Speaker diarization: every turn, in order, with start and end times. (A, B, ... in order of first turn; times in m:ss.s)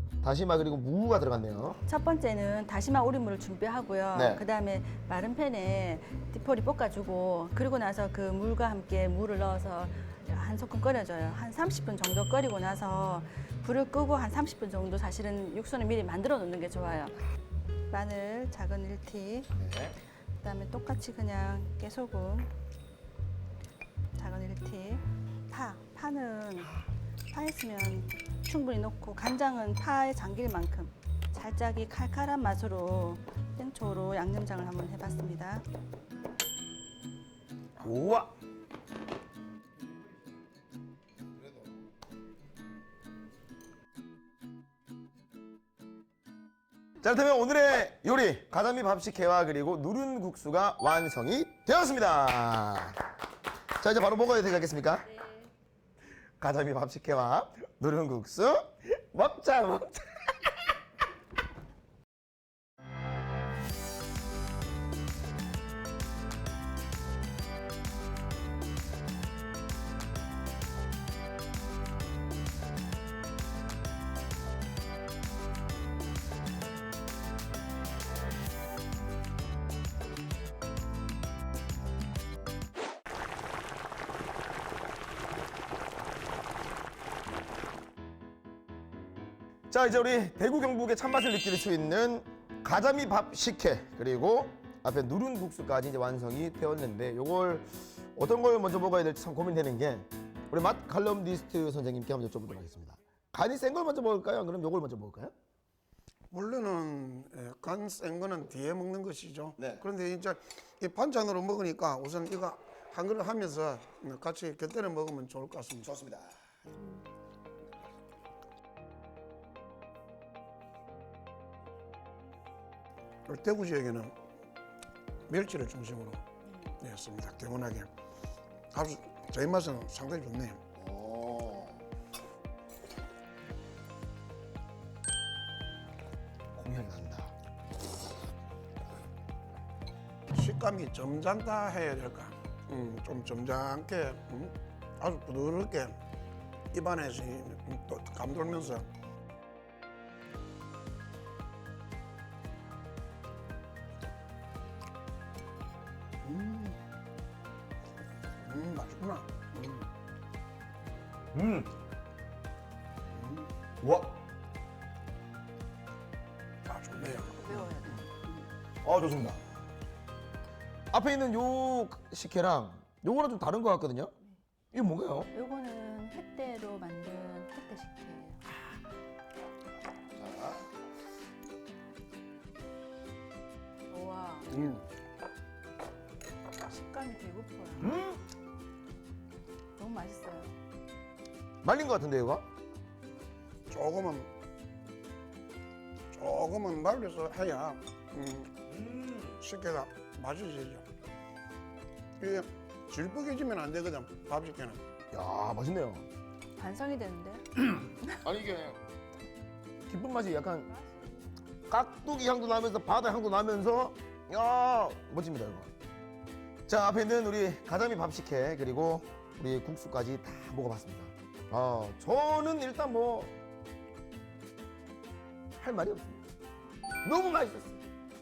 0:00.2-0:01.8 A
0:01.8-0:17.1 B
0:04.1-0:04.4 A
0:17.9-0:19.5 B
0:19.5-0:20.0 A
0:20.4-0:22.5 B
0:24.1-0:26.7 B
0:27.3-0:35.6 B
0:37.8-0:38.3 A
0:41.4-0:41.6 A
0:47.0-0:53.1 A
0:53.8-0:55.2 A
0:56.4-1:00.6 A
1:29.7-1:45.3 A
1:46.3-1:55.9 C
1:55.8-1:56.3 A
2:03.3-2:04.1 C
2:05.3-2:06.2 C
2:06.8-2:07.9 C
2:08.7-2:10.6 C
2:10.8-2:11.8 A
2:16.6-2:17.3 A
2:20.3-2:26.0 C
2:26.7-2:28.9 C
2:36.2-2:36.8 C
2:38.4-2:39.8 C
2:41.3-2:41.7 A
2:43.1-2:43.5 C
2:43.8-2:44.2 A
2:46.7-2:48.0 C
2:47.0-2:48.4 B
2:48.8-2:49.4 A
2:50.9-2:54.1 A
2:54.7-2:55.3 A
2:55.3-2:58.4 B
3:00.1-3:00.6 A
3:03.9-3:04.7 B
3:04.5-3:04.8 C
3:06.6-3:08.0 B
3:07.8-3:08.2 A
3:09.8-3:10.5 B
3:11.6-3:12.4 A
3:13.7-3:14.3 C
3:16.1-3:20.8 C
3:18.8-3:19.3 A
3:22.2-3:24.8 C
3:25.1-3:26.0 A
3:26.6-3:28.2 B
3:28.0-3:28.8 A
3:29.9-3:30.7 A
3:31.7-3:35.7 A
3:36.7-3:43.3 A
3:45.6-3:46.2 A
3:47.0-3:47.8 A